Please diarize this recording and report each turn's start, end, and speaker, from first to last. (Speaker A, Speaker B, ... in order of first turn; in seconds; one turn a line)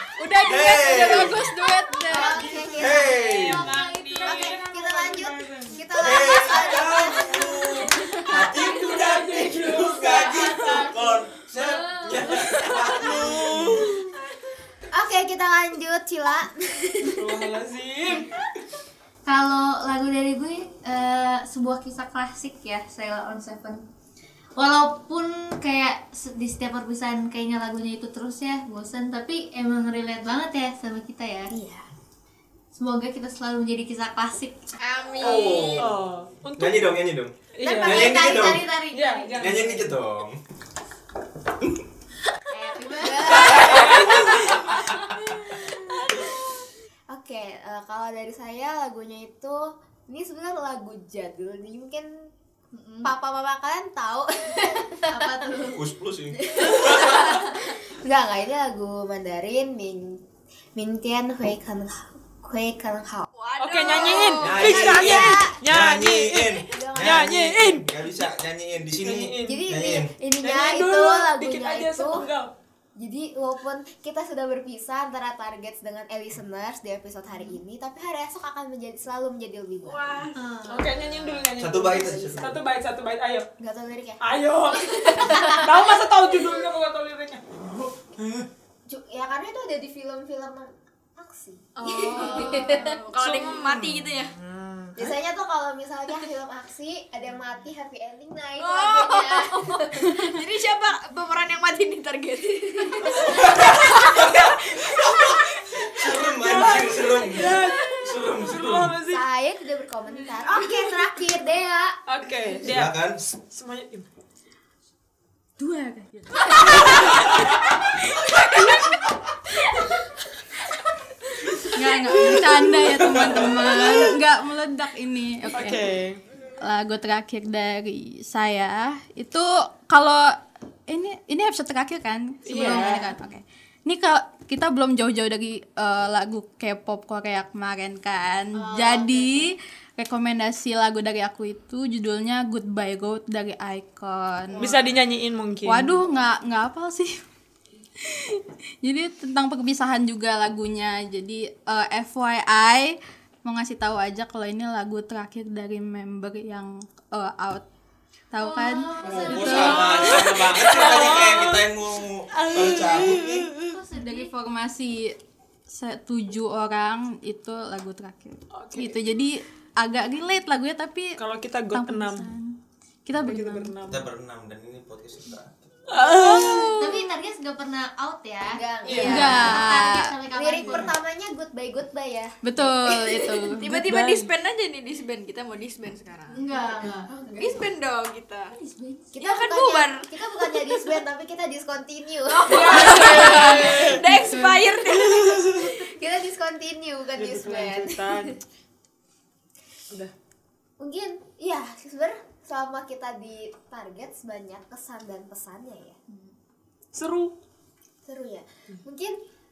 Speaker A: 0.2-2.5
Speaker B: 0.4-1.4
Speaker C: 2.1-3.4
Speaker D: 2.1-4.6
Speaker E: 2.4-5.8
Speaker B: 2.8-3.7
Speaker C: 4.2-7.4
Speaker B: 6.0-13.9
Speaker D: 6.5-9.2
Speaker E: 8.5-11.0
Speaker D: 10.0-10.9
Speaker D: 11.5-12.4
Speaker E: 12.9-13.8
Speaker C: 13.0-13.8
Speaker C: 14.9-17.3
Speaker E: 17.1-18.3
Speaker D: 19.2-23.8
Speaker D: 24.6-31.5
Speaker C: 31.5-31.9
Speaker D: 32.7-34.7
Speaker A: 34.8-35.8
Speaker B: 35.2-38.7
Speaker C: 35.2-35.6
Speaker E: 35.7-37.0
Speaker E: 37.5-39.9
Speaker D: 37.6-39.5
Speaker C: 37.7-38.1
Speaker B: 39.4-40.4
Speaker D: 42.5-44.2
Speaker C: 42.8-44.6
Speaker E: 43.4-44.8
Speaker B: 43.5-45.0
Speaker C: 47.1-52.1
Speaker A: 52.7-53.1
Speaker C: 53.0-60.2
Speaker D: 55.1-55.8
Speaker B: 55.7-57.5
Speaker C: 60.8-63.3
Speaker A: 63.3-64.8
Speaker E: 63.6-67.9
Speaker C: 63.9-65.5
Speaker B: 64.4-70.1
Speaker C: 66.7-67.7
Speaker E: 69.0-69.6
Speaker C: 69.4-72.2
Speaker E: 70.4-72.5
Speaker C: 73.0-80.2
Speaker A: 79.8-81.5
Speaker D: 80.3-80.8
Speaker E: 80.7-83.5
Speaker B: 81.5-82.6
Speaker C: 81.8-82.6
Speaker C: 83.6-85.8
Speaker E: 84.2-88.5
Speaker C: 88.9-92.9
Speaker A: 91.8-94.3
Speaker E: 92.3-94.9
Speaker C: 95.0-100.1
Speaker A: 98.6-106.2
Speaker B: 103.2-109.0
Speaker E: 106.4-109.2
Speaker C: 109.1-112.0
Speaker A: 110.4-110.7
Speaker E: 112.1-114.1
Speaker B: 112.6-113.2
Speaker F: 115.6-116.8
Speaker A: 118.4-118.7
Speaker F: 121.7-125.8
Speaker B: 123.2-124.0
Speaker E: 125.5-126.2
Speaker F: 126.6-144.7
Speaker E: 132.4-133.1
Speaker D: 132.6-132.9
Speaker D: 138.5-139.5
Speaker E: 144.6-146.0
Speaker F: 145.6-147.2
Speaker F: 148.0-157.6
Speaker F: 158.3-160.1
Speaker D: 158.4-161.0
Speaker B: 159.0-163.5
Speaker E: 159.4-161.6
Speaker A: 160.0-161.5
Speaker A: 162.4-163.7
Speaker D: 163.5-164.3
Speaker F: 163.9-165.2
Speaker F: 165.7-171.2
Speaker E: 168.5-169.0
Speaker E: 171.2-172.3
Speaker F: 171.7-172.5
Speaker F: 173.1-173.8
Speaker E: 173.2-174.1
Speaker B: 173.8-176.0
Speaker E: 175.9-176.8
Speaker A: 176.0-177.1
Speaker D: 176.3-180.9
Speaker C: 178.5-179.8
Speaker E: 178.8-179.4
Speaker F: 179.1-180.2
Speaker C: 180.3-182.7
Speaker F: 182.4-183.7
Speaker A: 183.0-186.4
Speaker E: 183.7-184.3
Speaker D: 186.3-187.7
Speaker A: 187.4-188.5
Speaker D: 188.5-189.2
Speaker C: 189.1-193.6
Speaker A: 189.2-191.0
Speaker A: 192.2-195.7
Speaker E: 192.5-194.0
Speaker E: 195.2-195.6
Speaker C: 195.4-198.3
Speaker E: 197.1-198.4
Speaker C: 200.8-206.0
Speaker E: 206.9-207.3
Speaker C: 208.0-209.2